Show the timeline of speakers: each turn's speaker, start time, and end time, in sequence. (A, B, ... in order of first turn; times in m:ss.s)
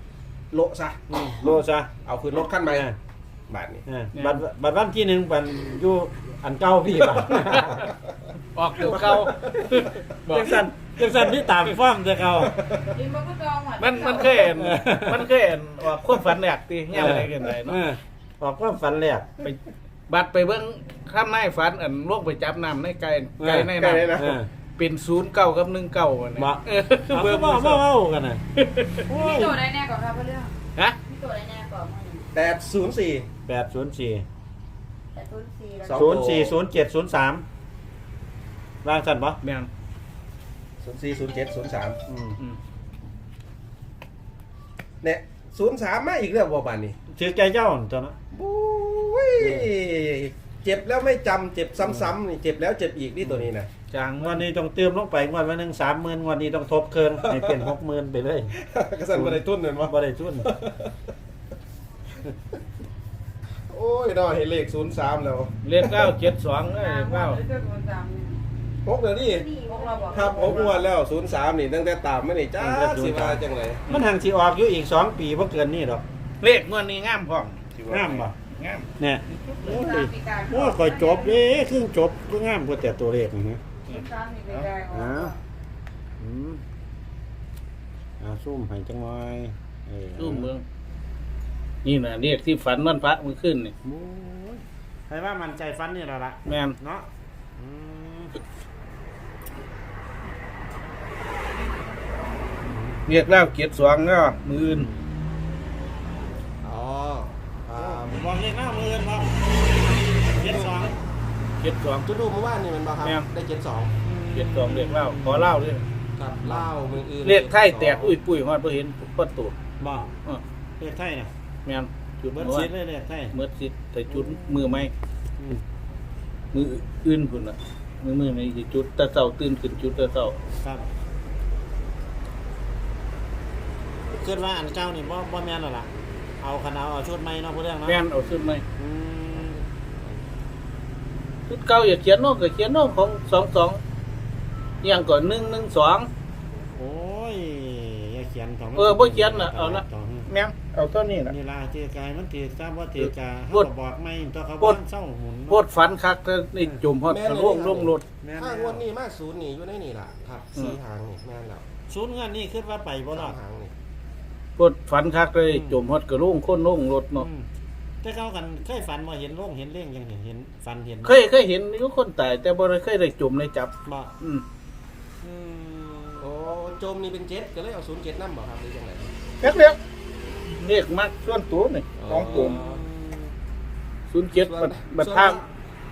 0:00.5-0:01.0 A
0:01.1-0:01.9 B
0:02.0-0:02.9 A
0:02.6-0:03.0 B
0:03.5-0:03.8 A
0:03.9-0:07.9 B
0:04.1-0:04.4 C
0:07.0-0:08.0 A
0:08.5-0:10.6 C
0:08.8-0:11.4 A
0:10.3-0:12.5 B
0:12.4-0:13.0 A
0:12.9-0:14.3 D
0:13.8-0:17.8 C
0:14.4-0:15.3 B
0:16.9-0:19.3 B
0:19.4-0:24.2 C
0:23.4-0:24.5 B
0:23.7-0:24.4 A
0:24.8-0:27.8 C
0:26.4-0:28.4 B
0:28.6-0:29.1 C
0:29.1-0:29.6 B
0:29.1-0:30.5 D
0:31.0-0:32.2 D
0:32.3-0:33.3 A
0:33.5-0:34.2 B
0:35.1-0:36.0 D
0:35.8-0:36.6 A
0:35.9-0:37.4 B
0:38.8-0:39.4 B
0:39.4-0:39.7 C
0:40.8-0:42.0 A
0:42.1-0:42.4 B
0:45.0-0:47.0 A
0:47.1-0:48.2 B
0:48.3-0:53.7 A
0:49.4-0:49.7 B
0:53.9-0:54.4 C
0:54.2-0:58.5 B
0:57.2-0:57.7 A
0:58.6-1:00.9 A
0:59.1-1:00.5 B
1:03.7-1:06.2 A
1:05.6-1:07.4 C
1:06.8-1:08.4 D
1:08.8-1:13.8 A
1:09.2-1:10.8 D
1:12.6-1:16.0 B
1:16.4-1:19.9 C
1:17.9-1:18.3 B
1:19.0-1:23.6 B
1:19.7-1:21.4 D
1:23.8-1:24.7 C
1:23.9-1:25.3 D
1:24.9-1:25.3 B
1:26.2-1:26.6 B
1:28.2-1:30.5 B
1:30.2-1:30.6 C
1:31.8-1:33.7 C
1:33.8-1:38.4 B
1:36.4-1:36.8 C
1:42.7-1:43.0 B
1:43.0-1:44.9 C
1:46.6-1:48.2 A
1:47.7-1:51.0 B
1:50.4-1:50.8 A
1:51.6-1:52.0 C
1:52.0-1:54.0 A
1:54.0-1:55.7 B
1:54.3-1:55.8 C
1:56.2-1:58.2 A
1:56.4-1:56.7 B
1:57.2-1:59.5 C
1:59.8-2:00.1 B
2:00.8-2:01.3 B
2:01.6-2:02.7 C
2:02.4-2:03.3 B
2:03.3-2:04.9 C
2:04.1-2:04.7 B
2:05.4-2:05.6 B
2:06.5-2:10.3 C
2:10.6-2:10.9 B
2:14.1-2:18.0 B
2:17.8-2:18.6 C
2:18.8-2:19.6 B
2:21.5-2:23.8 C
2:24.8-2:26.1 C
2:26.8-2:30.3 B
2:28.8-2:31.3 C
2:31.2-2:35.6 B
2:33.0-2:33.7 C
2:35.5-2:38.0 C
2:37.1-2:41.6 A
2:38.2-2:38.8 B
2:41.9-2:43.4 B
2:43.1-2:43.7 A
2:44.6-2:47.3 C
2:45.5-2:45.8 B
2:47.2-2:47.5 B
2:48.0-2:51.2 B
2:51.0-2:54.4 C
2:53.8-2:54.1 B
2:55.2-2:56.3 B
2:56.2-2:59.1 A
2:59.4-2:59.8 C
3:00.5-3:02.6 C
3:02.0-3:02.8 A
3:02.1-3:03.3 B
3:04.1-3:05.4 C
3:04.3-3:05.4 A